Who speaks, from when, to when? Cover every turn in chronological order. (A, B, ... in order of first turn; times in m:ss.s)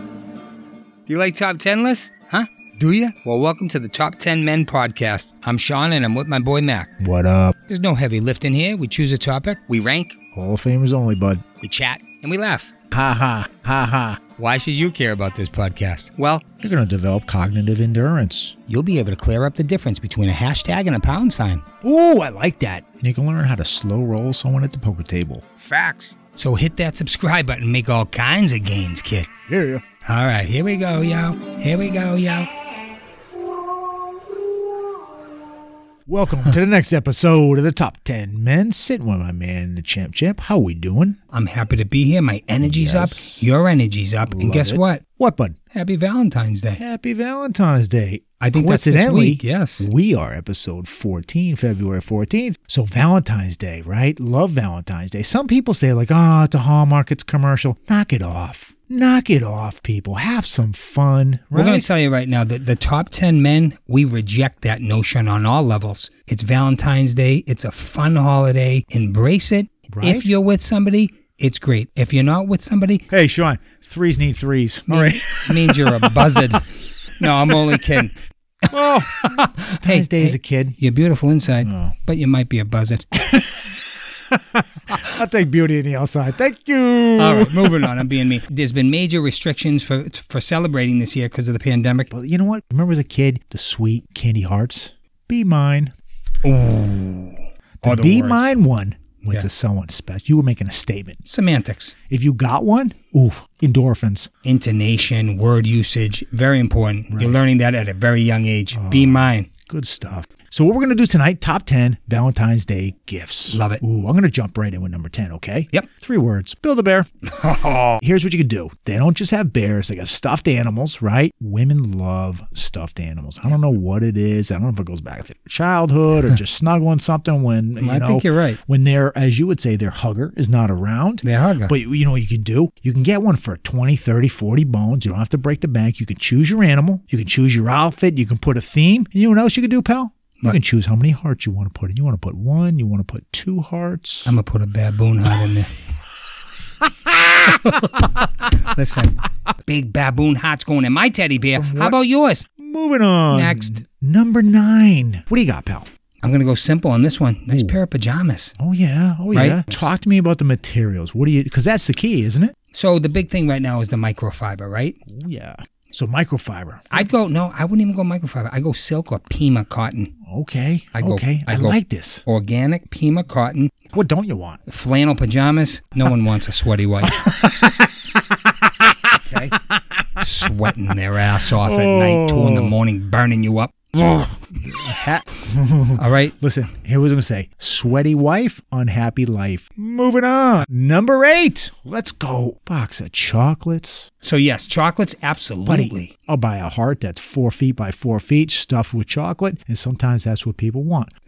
0:01.1-0:06.9 A
0:07.0-0:07.5 B
0:07.7-0:10.2 A
0:10.3-0:11.4 B
0:11.6-0:12.7 A
0:12.9-0:14.2 B
0:14.4-0:16.4 A
0:16.6-0:18.6 B
0:18.7-0:21.6 A
0:21.8-0:26.1 B
0:25.7-0:29.3 A
0:29.5-0:29.8 B
0:30.0-0:32.5 A
0:36.1-0:41.2 B
0:41.3-0:45.0 A
0:42.6-0:43.4 B
0:44.3-0:45.6 B
0:45.7-0:46.8 A
0:46.8-1:01.9 B
0:48.4-0:49.9 A
1:01.5-1:13.0 A
1:09.9-1:10.3 B
1:13.1-1:16.6 B
1:14.9-1:16.6 A
1:17.2-1:18.1 A
1:17.2-1:18.0 B
1:18.7-1:20.8 B
1:19.2-1:23.1 A
1:21.6-1:21.9 B
1:23.2-1:23.8 B
1:24.3-1:28.0 B
1:27.2-1:32.1 A
1:32.1-1:35.9 B
1:36.4-1:38.5 A
1:37.8-1:41.2 B
1:41.2-1:41.9 A
1:42.1-1:44.3 B
1:44.4-1:49.5 A
1:47.1-1:47.4 B
1:48.7-1:57.1 B
1:53.5-1:53.8 A
1:57.3-1:58.0 A
1:58.0-2:24.4 B
2:07.8-2:08.6 A
2:11.2-2:11.7 A
2:24.2-2:25.7 A
2:27.4-2:32.5 A
2:31.5-2:32.0 B
2:32.6-2:35.9 B
2:33.3-2:33.8 A
2:36.2-2:38.5 A
2:37.5-2:37.8 B
2:38.6-2:42.5 B
2:39.3-2:39.9 A
2:42.7-2:45.0 A
2:45.1-2:47.1 B
2:46.9-2:50.1 A
2:50.3-2:52.2 B
2:50.9-2:53.8 A
2:53.9-2:54.6 B
2:54.7-2:57.2 A
2:57.1-2:59.1 B
2:59.2-2:59.6 A
2:59.7-3:00.0 B
3:00.2-3:03.9 A
3:01.4-3:02.8 B
3:04.0-3:14.1 B
3:06.0-3:06.4 A
3:14.2-3:16.1 A
3:15.7-3:21.1 B